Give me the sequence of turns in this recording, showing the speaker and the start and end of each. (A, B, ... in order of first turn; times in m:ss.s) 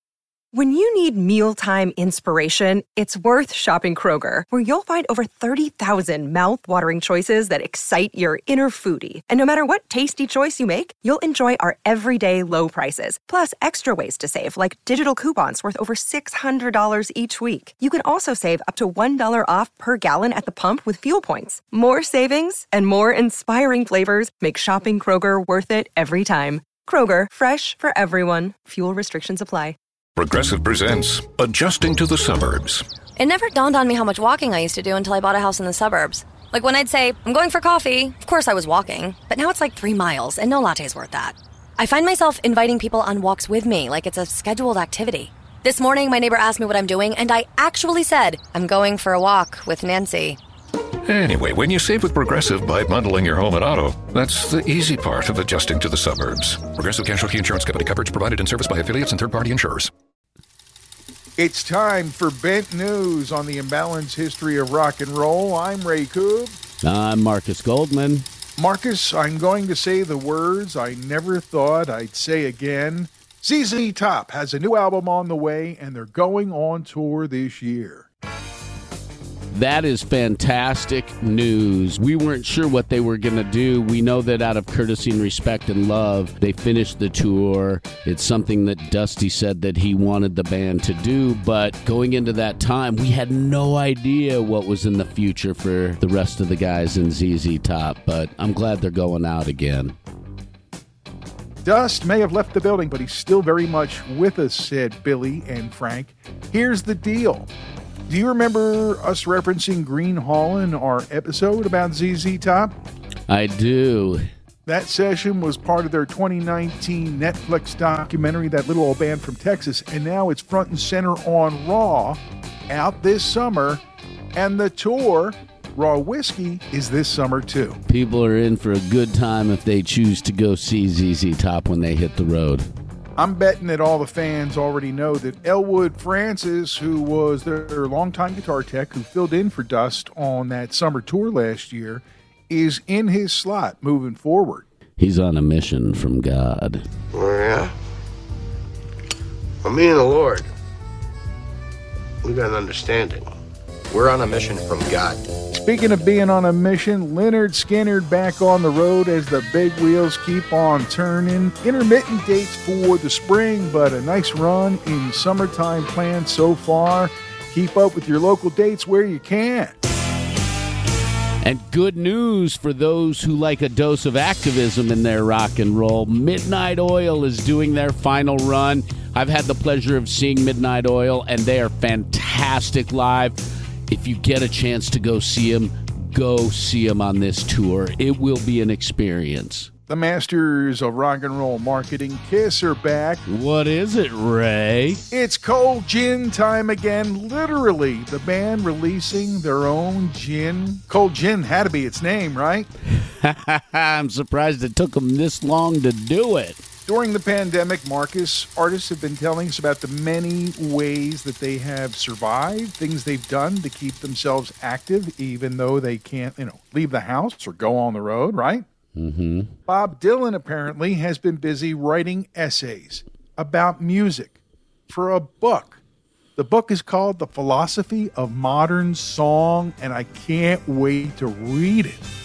0:00.5-0:29.8 A
0:30.2-0:32.8 B
0:33.2-0:50.4 C
0:51.1-0:59.9 B
1:01.4-1:06.6 D
1:06.8-1:08.3 E
1:08.6-1:18.1 D
1:19.5-1:40.0 E
1:41.6-1:47.5 D
1:48.1-1:52.7 D
1:53.3-1:54.2 E
1:54.7-2:03.8 D
2:04.4-2:07.8 D
2:07.9-2:12.7 E
2:13.2-2:24.6 D
2:25.0-2:26.9 E
2:27.1-2:27.7 F
2:29.6-2:30.5 F
2:32.2-2:33.3 F
2:33.9-2:35.3 F
2:35.5-2:49.8 D
2:51.4-3:03.4 E
3:03.9-3:09.7 E
3:09.9-3:13.2 D
3:13.3-3:15.0 E
3:15.1-3:22.7 D
3:22.9-3:26.6 E
3:26.9-3:38.7 D
3:39.0-3:39.5 E
3:39.7-3:44.4 D
3:44.9-3:45.8 D
3:46.4-3:52.0 D